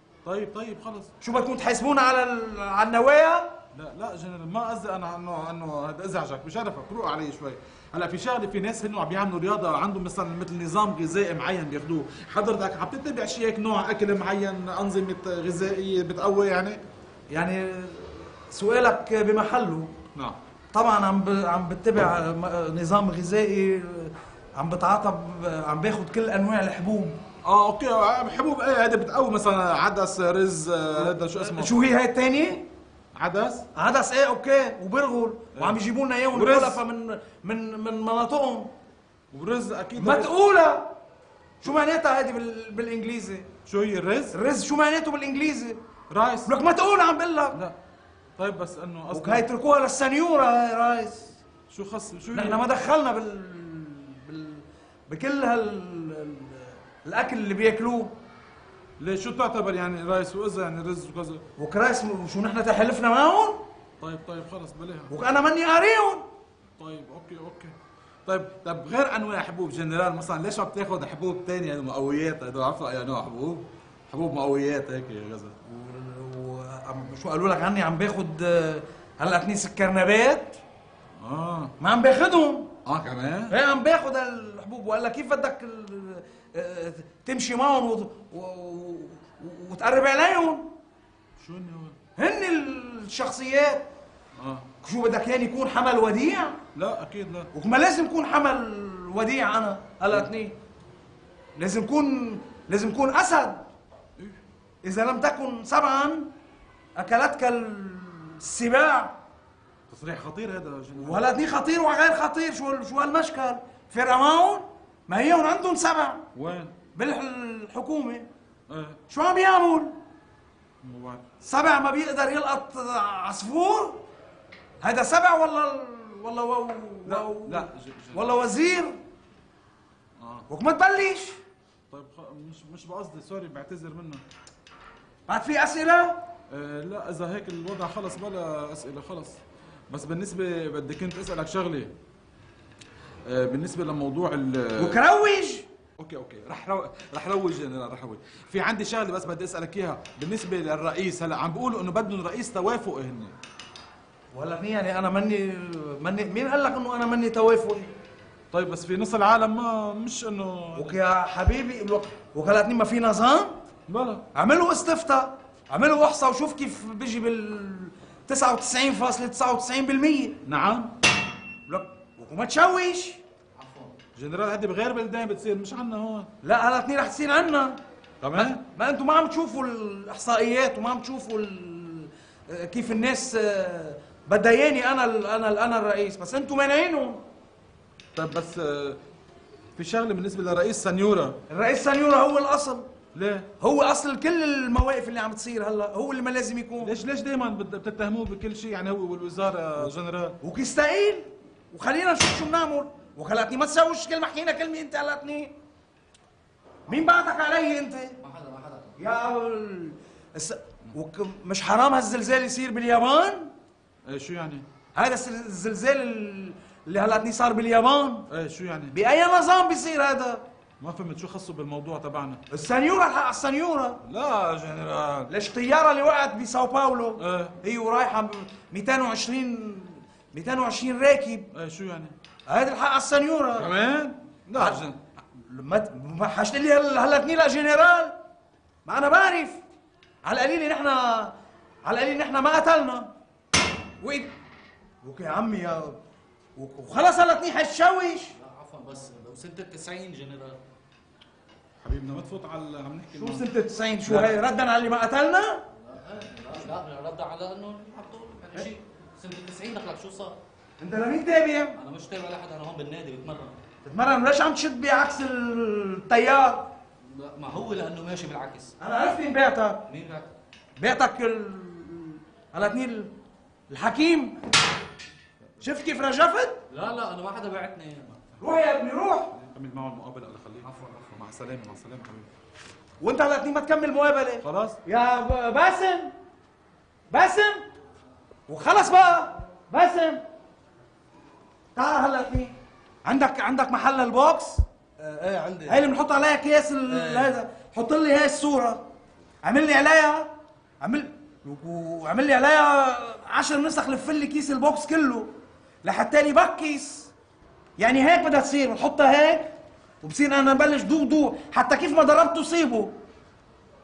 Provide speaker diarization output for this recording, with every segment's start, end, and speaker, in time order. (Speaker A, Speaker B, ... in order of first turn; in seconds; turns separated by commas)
Speaker A: 0.2-1.1, Speaker B: 1.2-3.5, Speaker A: 3.7-16.8, Speaker B: 17.3-19.9, Speaker B: 20.7-27.2, Speaker A: 27.4-31.8, Speaker B: 31.1-32.7, Speaker A: 33.1-33.6, Speaker B: 33.7-38.7, Speaker A: 36.3-36.8, Speaker A: 39.3-40.3, Speaker B: 40.0-40.9, Speaker B: 41.6-43.5, Speaker A: 43.6-44.4, Speaker B: 44.3-45.8, Speaker A: 46.1-46.5, Speaker B: 46.5-47.6, Speaker A: 48.4-49.4, Speaker B: 49.1-51.4, Speaker A: 51.7-52.6, Speaker B: 52.3-58.1, Speaker A: 59.0-61.4, Speaker B: 61.6-63.6, Speaker A: 64.0-65.1, Speaker B: 65.1-66.2, Speaker A: 66.8-75.6, Speaker B: 75.6-80.6, Speaker A: 81.2-81.7, Speaker B: 81.8-82.7, Speaker A: 82.8-83.5, Speaker B: 83.5-90.7, Speaker A: 91.4-92.0, Speaker B: 92.2-93.9, Speaker A: 94.4-94.7, Speaker B: 94.8-96.6, Speaker A: 96.7-97.5, Speaker B: 97.5-100.5, Speaker B: 101.5-103.6, Speaker B: 104.8-106.3, Speaker B: 106.9-109.2, Speaker A: 109.9-111.2, Speaker B: 111.0-116.2, Speaker A: 116.3-116.8, Speaker B: 116.9-118.3, Speaker A: 118.7-119.0, Speaker B: 119.1-120.0, Speaker A: 120.8-121.2, Speaker B: 121.4-124.0, Speaker B: 124.8-129.0, Speaker A: 127.0-128.3, Speaker A: 130.2-130.5, Speaker B: 130.5-131.4, Speaker A: 131.9-134.2, Speaker B: 135.3-136.2, Speaker A: 136.5-139.4, Speaker A: 139.9-141.9, Speaker A: 143.2-145.0, Speaker B: 144.8-145.7, Speaker A: 146.0-153.3, Speaker B: 154.3-157.9, Speaker A: 158.5-161.0, Speaker B: 160.7-163.6, Speaker A: 163.9-164.2, Speaker B: 164.3-170.4, Speaker A: 170.4-170.9, Speaker B: 171.7-173.2, Speaker C: 173.6-173.9, Speaker A: 174.1-176.3, Speaker B: 176.4-177.8, Speaker A: 178.2-178.6, Speaker B: 178.3-187.2, Speaker A: 188.2-189.0, Speaker A: 189.8-191.4, Speaker B: 191.5-192.8, Speaker A: 193.1-193.5, Speaker B: 193.6-196.9, Speaker A: 196.8-200.4, Speaker B: 200.4-205.5, Speaker B: 206.9-208.2, Speaker C: 208.2-209.0, Speaker B: 209.0-213.5, Speaker A: 214.1-214.7, Speaker B: 214.9-218.2, Speaker A: 218.3-218.9, Speaker B: 218.9-220.4, Speaker A: 220.8-222.4, Speaker B: 222.5-224.0, Speaker A: 224.0-225.3, Speaker B: 225.3-231.5, Speaker A: 227.2-227.6, Speaker A: 231.5-232.1, Speaker B: 232.5-233.7, Speaker A: 233.6-235.0, Speaker B: 234.5-238.2, Speaker B: 238.8-239.6, Speaker B: 240.2-243.1, Speaker B: 244.0-244.3, Speaker B: 245.0-246.0, Speaker B: 246.6-248.3, Speaker C: 248.3-250.6, Speaker A: 251.8-253.4, Speaker B: 253.1-255.6, Speaker A: 254.1-254.4, Speaker C: 255.7-260.4, Speaker B: 260.8-261.8, Speaker C: 261.8-263.6, Speaker B: 263.8-266.7, Speaker C: 267.1-268.7, Speaker B: 268.8-269.8, Speaker C: 269.9-270.3, Speaker B: 270.8-273.1, Speaker B: 273.7-274.4, Speaker B: 275.6-276.6, Speaker C: 276.7-278.2, Speaker B: 278.4-279.3, Speaker A: 279.3-282.3, Speaker C: 280.6-281.0, Speaker B: 283.0-286.1, Speaker A: 284.4-284.8, Speaker B: 287.1-287.6, Speaker B: 288.5-290.2, Speaker B: 291.7-294.6, Speaker C: 295.0-295.9, Speaker B: 295.6-298.9, Speaker C: 296.9-297.3, Speaker B: 299.4-305.3, Speaker B: 305.8-307.1, Speaker B: 307.8-312.9